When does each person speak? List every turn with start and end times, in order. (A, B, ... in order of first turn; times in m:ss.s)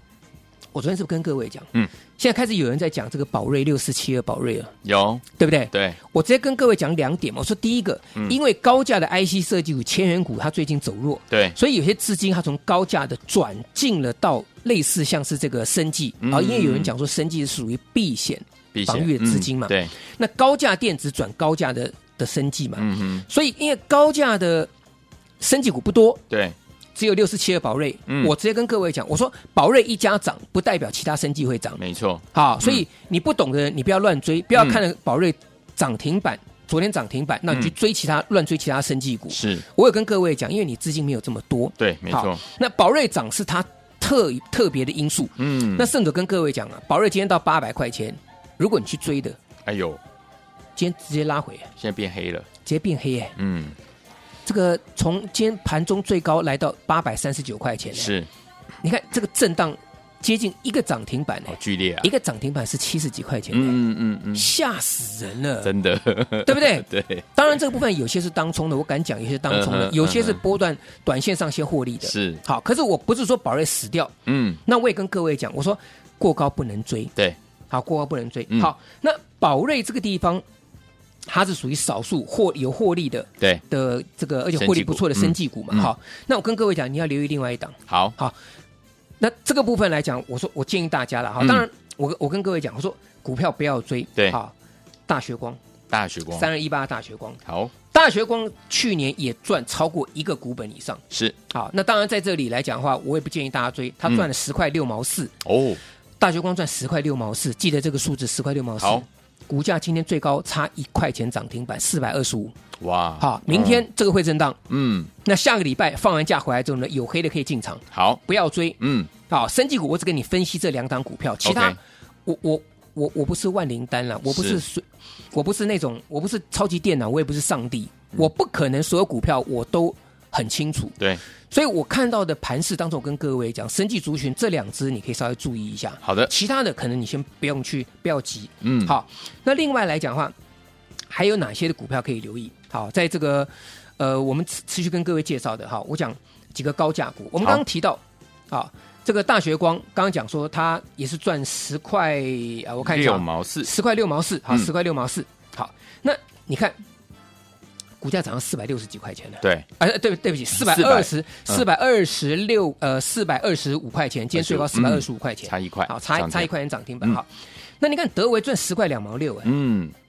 0:00.7-0:04.7 A
0:04.8-0:06.0 B
0:05.4-0:24.7 A
0:11.3-0:11.6 B
0:16.2-0:16.9 B
0:18.7-0:19.9 B
0:22.8-0:23.2 B
0:25.4-0:26.2 A
0:26.3-0:26.6 B
0:27.0-0:31.8 A
0:28.1-0:28.3 B
0:31.8-0:32.8 B
0:32.3-0:49.4 A
0:34.6-0:34.8 B
0:39.3-0:39.6 B
0:41.8-0:42.4 B
0:45.4-0:45.9 B
0:49.7-0:50.0 B
0:50.8-0:51.7 A
0:51.8-0:52.5 B
0:52.6-0:53.3 A
0:53.4-0:53.8 B
0:54.4-0:58.1 A
0:57.9-0:58.3 B
0:58.8-1:03.8 A
1:01.5-1:02.1 B
1:03.5-1:04.5 B
1:04.3-1:05.7 A
1:05.6-1:07.3 B
1:06.4-1:14.1 A
1:09.5-1:10.4 B
1:12.0-1:12.4 B
1:14.3-1:14.6 B
1:14.6-1:17.1 A
1:17.7-1:20.4 A
1:21.3-1:28.4 A
1:24.6-1:25.9 B
1:27.9-1:28.2 B
1:29.2-1:34.5 A
1:35.1-1:35.6 A
1:35.9-1:36.5 B
1:36.3-1:37.4 A
1:37.5-1:37.7 B
1:37.9-1:45.3 A
1:45.4-1:45.8 B
1:46.2-1:52.5 A
1:48.8-1:49.0 B
1:52.8-1:53.8 B
1:53.2-1:54.6 A
1:54.7-1:55.1 B
1:55.2-2:11.0 A
1:57.9-1:58.2 B
1:58.8-1:59.1 B
2:01.4-2:01.8 B
2:04.3-2:04.6 B
2:11.5-2:20.3 A
2:16.0-2:16.3 B
2:18.6-2:18.9 B
2:21.1-2:36.8 A
2:32.8-2:33.7 B
2:38.0-2:47.3 A
2:39.4-2:39.7 B
2:40.5-2:41.6 B
2:44.4-2:46.5 B
2:47.8-2:49.5 A
2:49.4-2:49.9 B